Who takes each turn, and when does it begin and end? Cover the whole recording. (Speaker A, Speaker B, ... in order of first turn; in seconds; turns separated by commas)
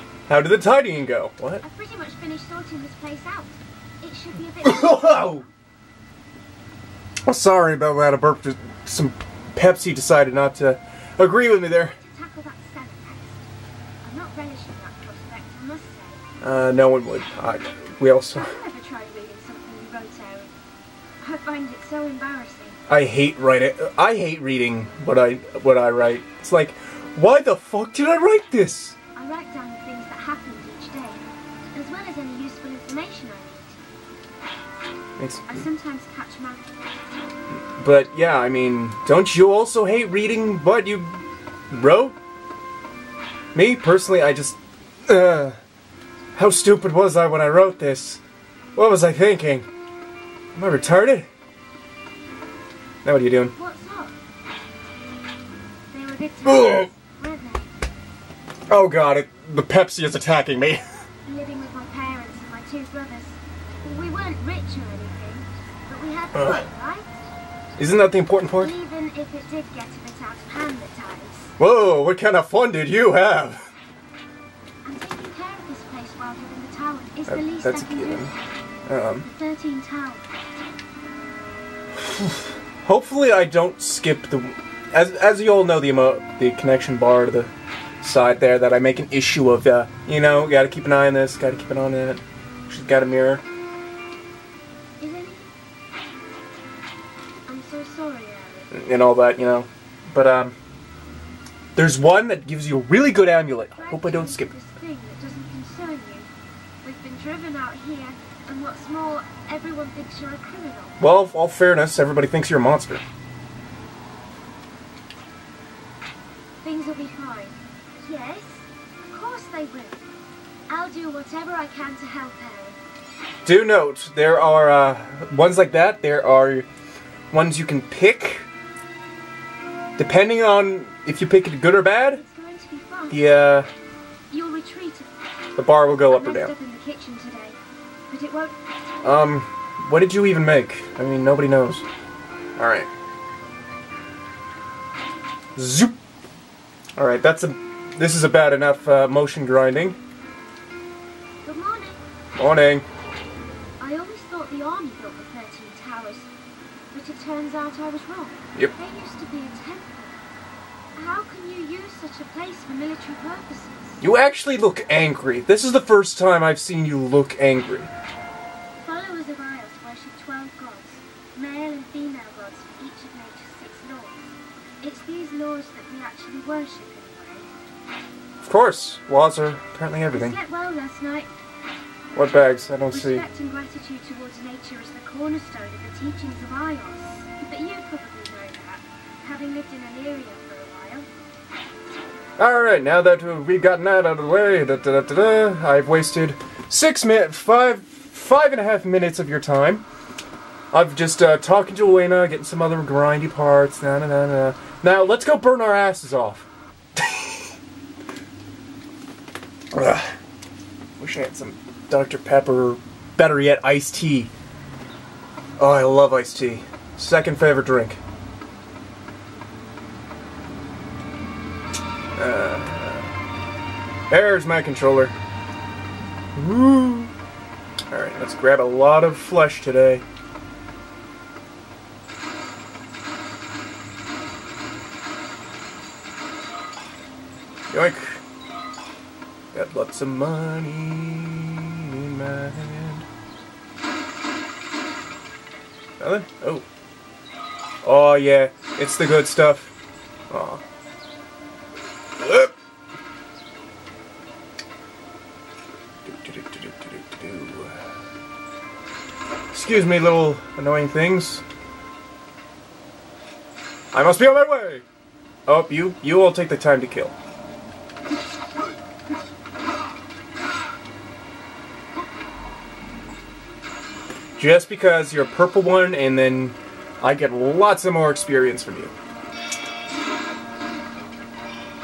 Speaker A: 0.3-1.6, Speaker B: 1.6-5.5, Speaker A: 4.6-5.4, Speaker A: 7.2-12.0, Speaker B: 11.9-13.5, Speaker B: 14.0-16.2, Speaker A: 16.4-18.6, Speaker B: 18.3-20.5, Speaker B: 21.2-22.8, Speaker A: 22.9-28.9, Speaker B: 29.2-31.2, Speaker B: 31.7-33.8, Speaker A: 35.2-35.7, Speaker B: 35.5-36.7, Speaker A: 37.5-42.2, Speaker A: 43.5-45.6, Speaker A: 46.4-48.2, Speaker A: 48.8-49.7, Speaker A: 50.5-51.3, Speaker A: 53.0-53.5, Speaker B: 53.5-54.2, Speaker B: 55.9-57.7, Speaker A: 56.4-56.9, Speaker A: 58.7-60.8, Speaker B: 61.2-67.2, Speaker A: 66.3-66.7, Speaker A: 67.8-68.7, Speaker B: 68.6-71.5, Speaker A: 71.6-73.6, Speaker B: 74.8-78.3, Speaker A: 77.3-78.3, Speaker A: 78.8-79.2, Speaker B: 79.2-80.2, Speaker A: 81.9-93.4, Speaker B: 95.0-95.5, Speaker B: 97.5-98.8, Speaker A: 98.7-100.5, Speaker A: 101.8-104.5, Speaker B: 103.7-106.3, Speaker B: 106.8-111.0, Speaker A: 111.0-113.0, Speaker B: 116.6-120.1, Speaker B: 120.7-122.8, Speaker A: 123.4-126.7, Speaker A: 127.3-128.5, Speaker A: 130.0-132.2, Speaker B: 132.1-133.2, Speaker A: 133.1-133.7, Speaker B: 134.3-135.1, Speaker A: 135.6-136.5, Speaker B: 136.1-137.6, Speaker B: 138.1-138.6, Speaker A: 139.0-141.8, Speaker A: 142.6-142.9, Speaker A: 145.6-145.9, Speaker A: 147.0-150.0, Speaker B: 151.4-152.0, Speaker A: 152.3-152.8, Speaker B: 153.8-156.3, Speaker B: 156.9-160.2, Speaker B: 160.9-164.0, Speaker A: 164.0-167.9, Speaker B: 168.8-177.5, Speaker A: 178.4-180.4, Speaker B: 180.1-181.3, Speaker A: 182.1-183.2, Speaker B: 182.9-191.1, Speaker A: 192.4-199.8, Speaker A: 200.7-207.4, Speaker A: 209.7-210.2, Speaker A: 211.0-214.3, Speaker A: 215.6-218.0, Speaker A: 222.2-223.1, Speaker A: 224.1-225.1, Speaker A: 226.3-227.1, Speaker A: 227.9-230.1, Speaker A: 237.7-238.2, Speaker A: 239.5-243.1, Speaker A: 246.0-246.6, Speaker A: 247.8-249.7, Speaker A: 250.3-250.6, Speaker A: 252.2-252.5, Speaker A: 256.1-257.8, Speaker A: 259.5-261.4, Speaker A: 263.9-264.8, Speaker A: 265.5-267.1, Speaker A: 274.4-278.9